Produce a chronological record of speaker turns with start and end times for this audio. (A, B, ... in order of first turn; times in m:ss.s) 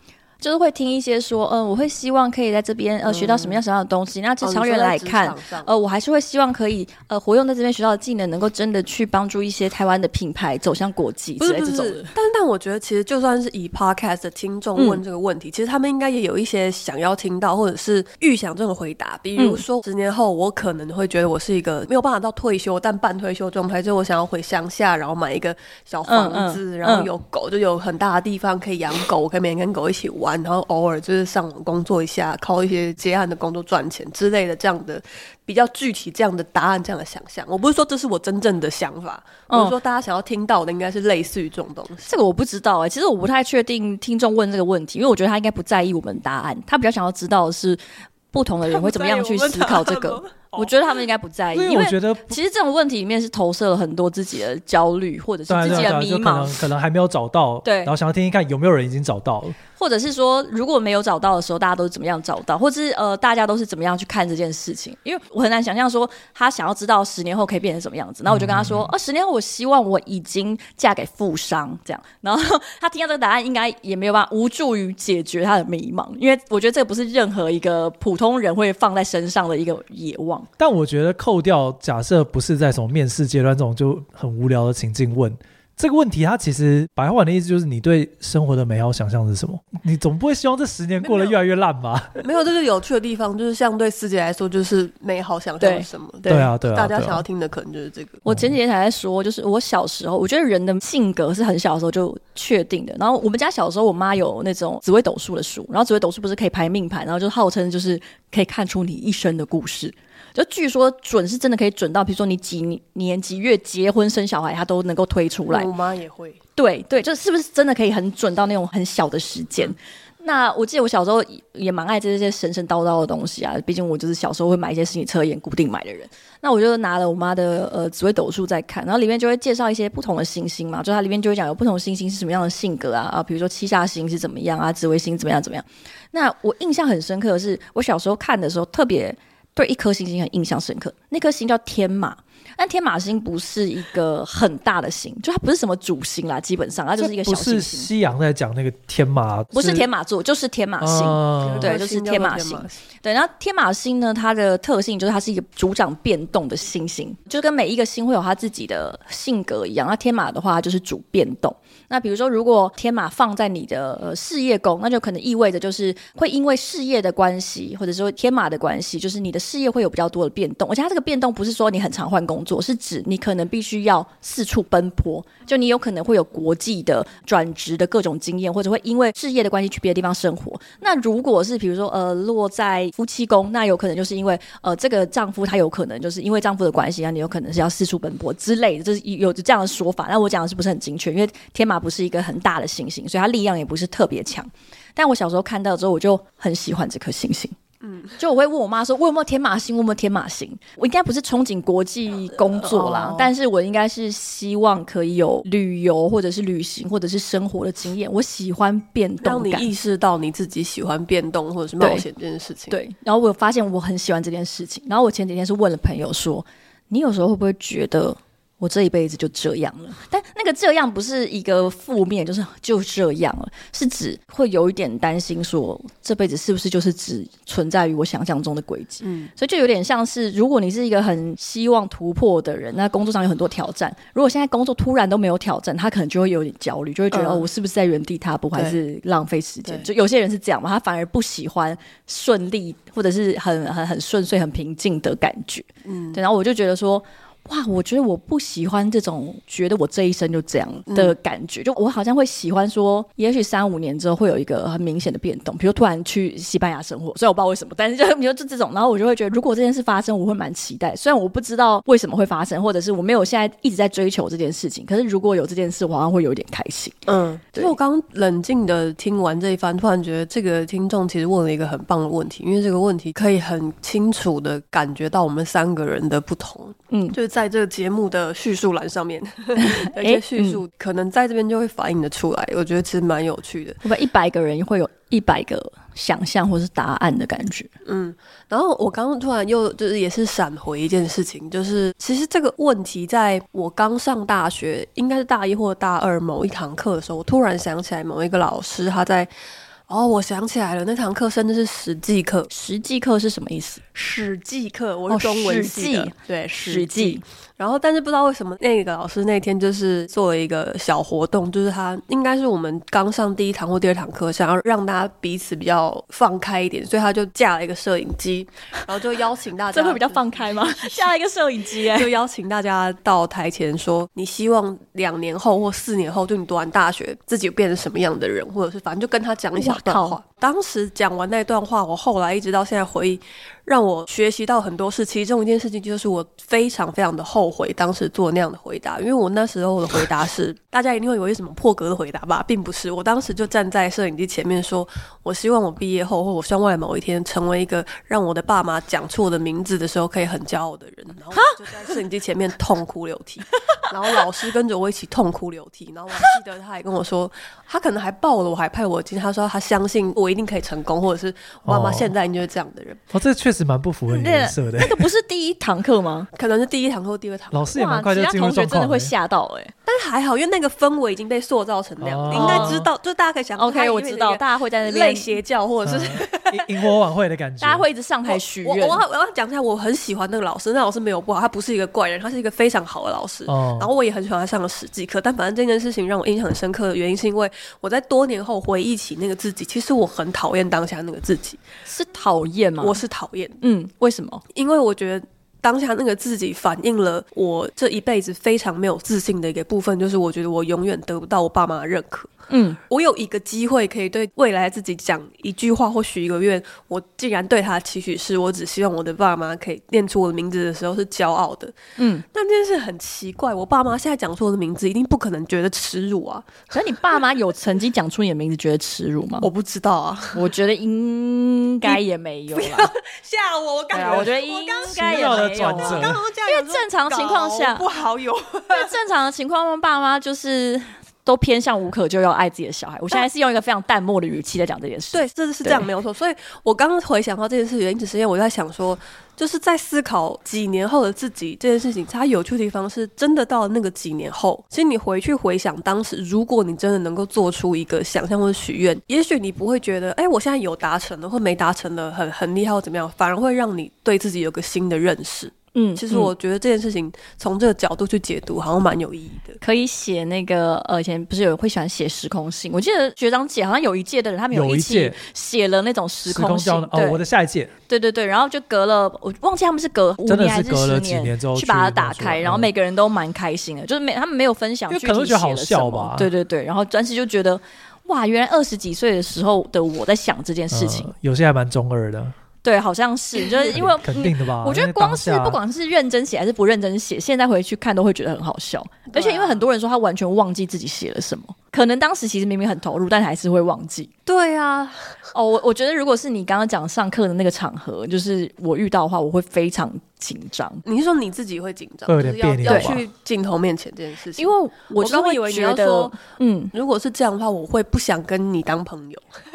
0:00.4-0:12.1 A
0:03.0-0:03.6 B
0:04.4-0:05.7 B
0:11.4-0:42.1 B
0:14.8-0:15.0 A
0:19.4-0:19.6 A
0:26.1-0:27.1 A
0:39.5-0:39.7 A
0:42.0-0:56.5 A
0:48.7-0:50.5 B
0:51.5-0:52.4 C
0:55.5-0:59.6 C
0:57.6-0:57.9 A
0:59.8-1:20.5 A
1:08.3-1:08.9 C
1:20.6-1:32.2 C
1:31.0-1:31.4 B
1:32.2-1:38.2 B
1:35.6-1:36.5 A
1:36.2-1:37.2 C
1:38.2-1:55.7 A
1:38.2-1:38.5 C
1:55.5-1:56.4 B
1:56.6-2:27.9 A
2:27.0-2:29.9 C
2:29.5-3:17.6 A
2:30.8-2:31.7 C
2:31.4-2:32.8 B
3:17.8-3:18.2 B
3:18.2-3:29.7 A
3:22.5-3:23.3 B
3:29.2-3:32.8 B
3:31.8-3:32.0 A
3:32.7-4:27.7 A
3:49.0-3:49.3 B
3:57.1-3:57.5 B
4:05.8-4:06.2 B
4:10.9-4:11.1 B
4:27.1-4:43.8 B
4:36.9-4:37.2 A
4:39.6-4:40.6 A
4:43.8-4:47.7 A
4:47.8-4:59.3 B
4:59.9-5:02.5 B
5:02.5-5:03.8 A
5:03.9-5:21.1 B
5:05.1-5:07.2 A
5:19.7-5:22.1 A
5:21.7-6:03.0 B
5:29.6-5:30.2 A
5:51.3-5:51.9 A
6:01.6-6:02.1 C
6:03.1-6:05.1 C
6:04.1-6:06.3 A
6:06.3-6:07.7 B
6:07.5-6:09.1 C
6:07.7-6:09.7 A
6:09.8-6:16.8 B
6:12.0-6:12.9 C
6:12.3-6:12.8 A
6:13.6-6:15.3 A
6:15.8-6:17.9 C
6:17.6-6:19.0 A
6:18.3-6:31.6 B
6:23.5-6:23.9 C
6:31.9-6:33.0 A
6:32.8-6:33.6 B
6:33.6-6:34.4 A
6:34.5-6:42.3 B
6:42.5-6:42.8 A
6:42.9-6:56.7 B
6:52.0-6:52.2 A
6:56.7-6:59.5 A
6:59.4-7:00.5 B
7:00.3-7:02.9 A
7:02.5-7:08.9 B
7:03.9-7:07.8 A
7:04.9-7:06.2 C
7:08.7-7:15.8 A
7:15.1-7:39.6 B
7:35.7-7:36.3 A
7:39.6-7:47.2 A
7:44.5-7:45.2 C
7:46.2-7:47.7 C
7:47.9-8:01.1 A
7:50.2-7:52.7 C
7:54.9-7:56.3 C
8:00.7-8:02.3 C
8:02.6-8:14.1 A
8:03.6-8:05.6 C
8:09.1-8:09.7 B
8:14.2-8:15.2 B
8:15.3-8:20.8 A
8:20.8-8:26.2 B
8:22.1-8:23.0 C
8:22.6-8:23.0 A
8:24.4-8:26.7 A
8:26.7-8:29.2 B